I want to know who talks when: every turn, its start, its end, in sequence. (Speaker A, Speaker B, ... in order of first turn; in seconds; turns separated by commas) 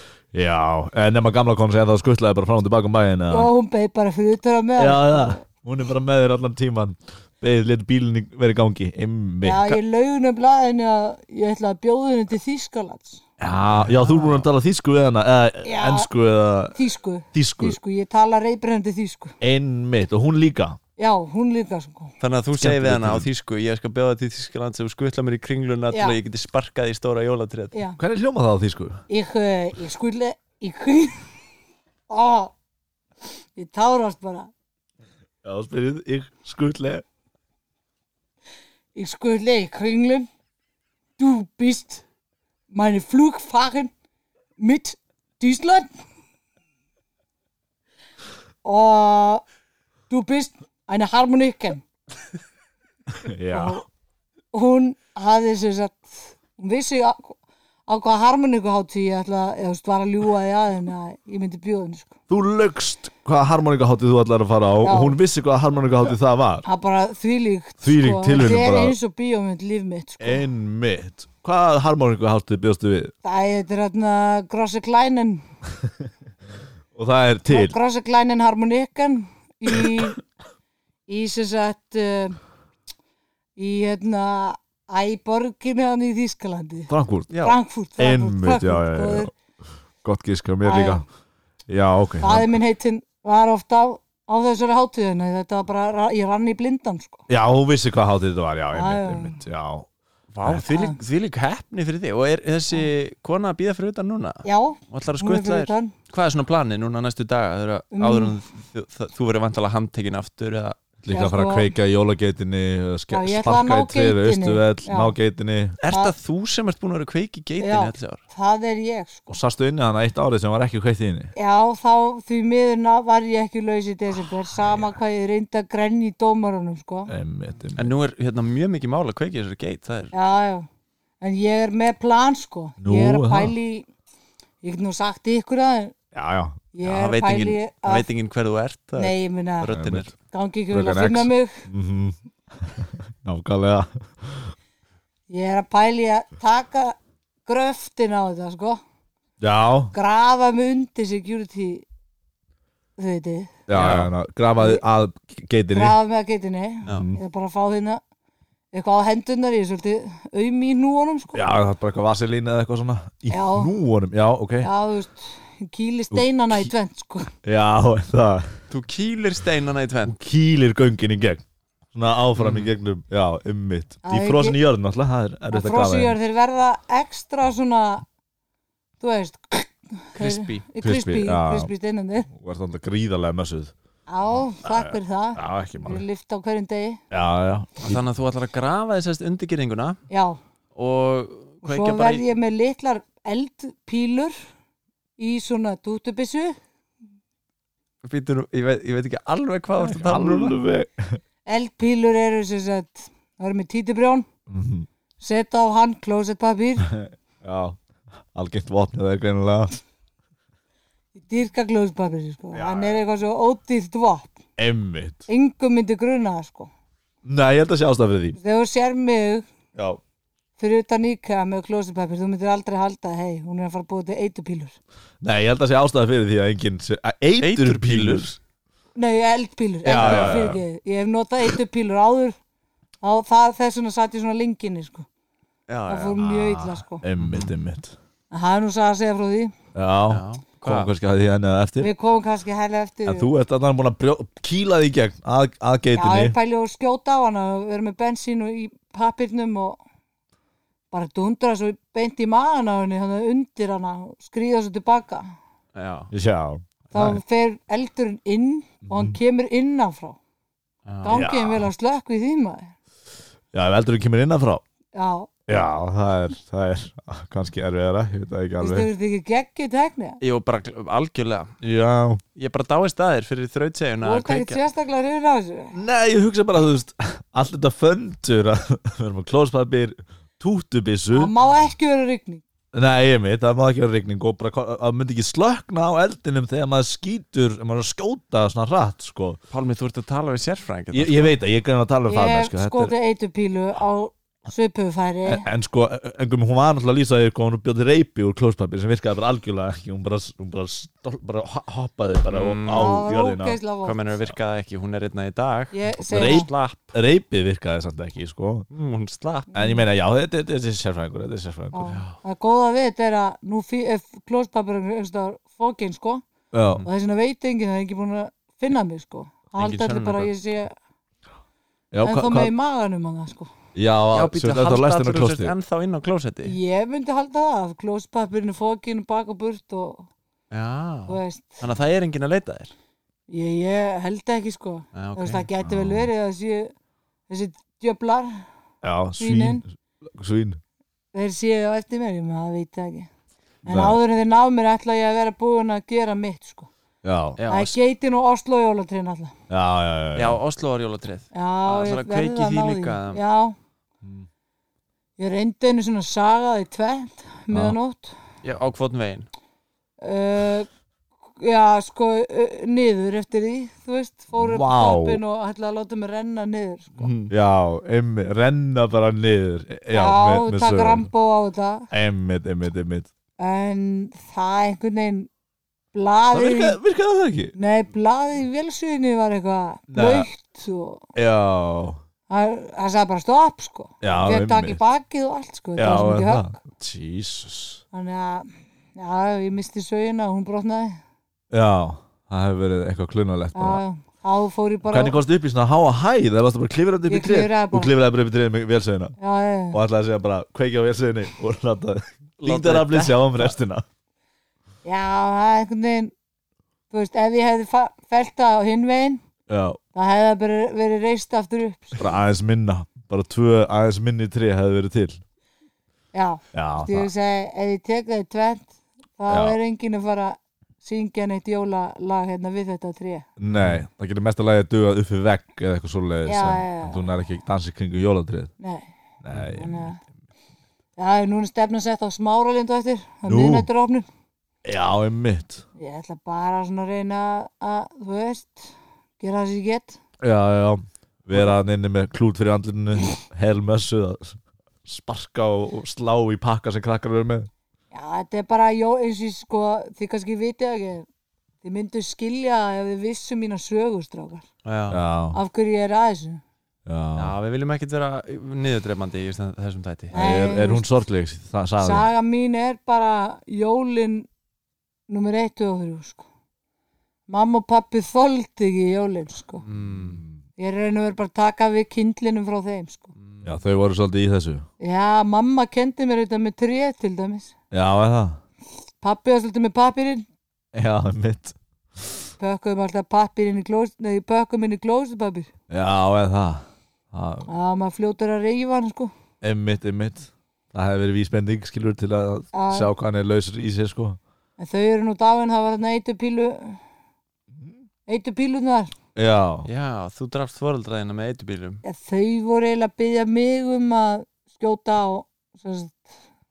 Speaker A: 0.3-3.5, Speaker B: 3.3-5.4, Speaker A: 4.8-9.7, Speaker B: 9.4-13.2, Speaker A: 13.4-16.8, Speaker C: 13.8-14.5, Speaker B: 15.6-16.1, Speaker B: 16.7-19.4, Speaker A: 17.3-17.8, Speaker A: 19.4-20.8, Speaker B: 21.0-22.1, Speaker C: 22.2-27.8, Speaker A: 22.6-23.3, Speaker B: 25.9-26.2, Speaker A: 28.0-29.0, Speaker B: 29.1-31.2, Speaker B: 32.1-32.5, Speaker B: 33.6-34.5, Speaker A: 35.4-37.0, Speaker B: 39.0-40.3, Speaker B: 41.2-42.0, Speaker B: 42.7-43.9, Speaker B: 44.6-45.9, Speaker B: 48.6-49.4, Speaker B: 50.1-51.8, Speaker A: 53.1-53.8, Speaker B: 53.5-53.8, Speaker B: 54.5-62.1, Speaker A: 62.3-66.7, Speaker B: 64.8-65.2, Speaker B: 66.7-70.4, Speaker A: 67.8-69.0, Speaker A: 70.2-73.1, Speaker B: 73.2-75.5, Speaker A: 77.0-77.8, Speaker B: 77.5-80.2, Speaker B: 81.1-82.4, Speaker B: 83.6-86.9, Speaker A: 86.9-87.3, Speaker C: 87.3-87.6, Speaker B: 87.4-89.3, Speaker A: 88.0-89.3, Speaker A: 90.0-91.0, Speaker B: 90.7-91.0, Speaker A: 91.7-92.6, Speaker B: 92.2-97.2, Speaker A: 97.3-99.9, Speaker B: 98.7-99.4, Speaker C: 100.3-110.8, Speaker B: 100.7-101.0, Speaker B: 104.4-105.9, Speaker B: 107.9-108.4, Speaker A: 111.0-115.8, Speaker B: 111.1-111.7, Speaker B: 113.1-115.2, Speaker C: 115.8-118.2, Speaker B: 115.9-116.1, Speaker B: 117.6-119.3, Speaker A: 119.3-121.3, Speaker B: 121.4-127.1, Speaker A: 127.1-127.9, Speaker C: 127.8-130.1, Speaker B: 130.1-130.7, Speaker B: 131.2-133.9, Speaker A: 132.8-133.5, Speaker B: 134.6-136.0, Speaker A: 136.1-136.6, Speaker B: 136.7-138.1, Speaker C: 136.8-140.1, Speaker B: 139.0-139.7, Speaker A: 139.7-140.1, Speaker B: 140.3-141.7, Speaker A: 140.7-144.5, Speaker B: 145.3-148.8, Speaker A: 149.4-149.9, Speaker B: 149.9-151.8, Speaker B: 153.0-153.6, Speaker A: 153.7-156.0, Speaker C: 153.7-154.1, Speaker B: 154.6-154.8, Speaker B: 155.7-158.0, Speaker A: 156.9-157.2, Speaker B: 158.7-161.4, Speaker A: 161.3-164.7, Speaker B: 163.3-163.7, Speaker B: 164.6-167.3, Speaker A: 167.4-168.5, Speaker C: 168.7-170.1, Speaker A: 170.1-176.2, Speaker C: 172.4-172.7, Speaker B: 174.1-174.6, Speaker B: 175.5-178.1, Speaker B: 179.0-182.3, Speaker C: 180.2-180.7, Speaker A: 180.8-181.7, Speaker A: 182.3-183.7, Speaker B: 184.1-187.0, Speaker A: 184.6-186.0, Speaker A: 187.1-188.0, Speaker C: 187.8-190.0, Speaker B: 190.1-190.4, Speaker C: 190.8-192.2, Speaker B: 191.6-194.4, Speaker B: 195.2-196.6, Speaker C: 198.0-200.6, Speaker A: 199.8-201.2, Speaker B: 201.5-204.3, Speaker A: 204.5-204.9, Speaker B: 205.2-206.9, Speaker A: 206.8-207.8, Speaker A: 208.3-209.8, Speaker B: 211.2-214.4, Speaker A: 212.5-213.0, Speaker A: 214.6-215.3, Speaker B: 215.3-216.7, Speaker A: 217.2-218.4, Speaker B: 218.4-219.4, Speaker B: 220.6-224.8, Speaker A: 225.2-228.3, Speaker C: 227.4-228.4, Speaker B: 229.0-232.4, Speaker A: 229.8-230.6, Speaker C: 230.0-230.5, Speaker B: 233.0-235.1, Speaker C: 235.7-236.2, Speaker B: 235.9-237.0, Speaker A: 236.2-237.9, Speaker C: 237.2-237.5, Speaker B: 238.3-239.5, Speaker A: 239.7-241.9, Speaker C: 240.1-240.9, Speaker B: 241.8-243.3, Speaker A: 243.1-246.3, Speaker B: 245.9-249.8, Speaker B: 250.9-255.3, Speaker C: 255.8-256.1, Speaker A: 256.1-257.2, Speaker B: 256.9-260.2, Speaker A: 258.9-259.2, Speaker C: 260.9-261.2, Speaker B: 261.0-262.7, Speaker A: 261.1-261.7, Speaker A: 263.5-264.6, Speaker B: 264.9-265.6, Speaker A: 265.5-268.9, Speaker B: 268.6-270.2, Speaker C: 270.2-271.6, Speaker A: 271.6-272.2, Speaker C: 272.4-274.6, Speaker B: 274.0-275.8, Speaker A: 275.7-281.3, Speaker B: 281.1-282.4, Speaker A: 282.7-289.4, Speaker C: 289.5-291.4, Speaker A: 290.9-292.9, Speaker B: 292.1-295.5, Speaker A: 295.3-303.6, Speaker C: 302.3-303.0, Speaker B: 302.7-304.0, Speaker C: 303.8-306.9, Speaker B: 305.7-306.5, Speaker A: 306.1-308.7, Speaker C: 308.7-309.5, Speaker B: 309.5-309.8, Speaker A: 309.5-311.9, Speaker B: 311.7-316.2, Speaker C: 311.9-312.2, Speaker A: 316.5-316.9, Speaker B: 316.9-320.7, Speaker C: 319.6-320.3, Speaker A: 321.9-322.5, Speaker B: 322.0-323.5, Speaker A: 323.8-325.5, Speaker C: 324.1-326.6, Speaker B: 326.4-330.1, Speaker C: 330.5-332.7, Speaker B: 331.1-331.6, Speaker B: 333.3-336.7, Speaker C: 334.9-335.4, Speaker A: 335.6-336.1, Speaker B: 337.3-338.4, Speaker A: 338.8-340.6, Speaker B: 339.2-339.6, Speaker B: 341.1-343.1, Speaker B: 343.6-346.7, Speaker A: 343.7-344.0, Speaker A: 347.0-347.4, Speaker C: 347.4-347.8, Speaker B: 347.5-349.3, Speaker A: 349.5-350.4, Speaker C: 350.1-353.2, Speaker B: 351.3-353.6, Speaker B: 355.2-358.1, Speaker A: 357.5-357.8, Speaker C: 358.4-359.3, Speaker B: 360.0-360.7, Speaker B: 361.4-367.1, Speaker A: 364.3-365.2, Speaker C: 367.0-367.3, Speaker A: 367.3-371.1, Speaker B: 369.9-371.9, Speaker A: 371.9-373.1, Speaker B: 373.4-375.3, Speaker B: 375.9-376.8, Speaker A: 376.3-377.5, Speaker B: 377.6-381.0, Speaker A: 379.9-380.3, Speaker A: 381.1-382.0, Speaker B: 382.3-386.5, Speaker A: 384.0-384.8, Speaker A: 385.8-387.8, Speaker B: 387.9-391.0, Speaker A: 391.5-393.8, Speaker B: 393.6-395.2, Speaker A: 394.9-399.2, Speaker B: 397.1-397.9, Speaker B: 399.2-399.8, Speaker A: 399.7-403.8, Speaker C: 402.4-403.5, Speaker B: 404.8-406.1, Speaker B: 406.9-409.2, Speaker A: 409.5-409.8, Speaker B: 409.9-412.0, Speaker A: 412.0-415.2, Speaker B: 416.1-423.3, Speaker A: 416.5-417.1, Speaker A: 419.3-419.6, Speaker A: 423.4-428.5, Speaker B: 426.3-427.1, Speaker B: 428.6-428.9, Speaker A: 429.2-429.8, Speaker B: 429.5-430.0, Speaker B: 431.0-434.1, Speaker A: 433.3-433.7, Speaker A: 434.6-435.6, Speaker B: 435.8-440.0, Speaker A: 440.2-447.5, Speaker B: 447.9-451.1, Speaker B: 451.6-454.5, Speaker C: 454.6-455.0, Speaker A: 454.9-455.4, Speaker B: 455.3-456.4, Speaker A: 456.9-457.3, Speaker C: 457.2-460.1, Speaker A: 460.1-462.1, Speaker B: 460.1-460.9, Speaker B: 461.8-464.3, Speaker B: 465.1-466.2, Speaker B: 467.3-469.6, Speaker C: 469.6-470.2, Speaker A: 469.8-470.4, Speaker B: 470.6-473.1, Speaker C: 473.2-473.6, Speaker A: 473.4-474.7, Speaker B: 474.8-477.5, Speaker A: 477.7-478.4, Speaker B: 479.0-480.3, Speaker A: 480.7-482.2, Speaker B: 482.4-485.5, Speaker A: 485.7-487.5, Speaker B: 487.5-489.1, Speaker A: 489.4-494.2, Speaker B: 492.5-492.9, Speaker B: 494.6-496.8, Speaker B: 498.1-498.9, Speaker A: 499.2-499.7, Speaker C: 499.6-501.8, Speaker B: 501.8-506.1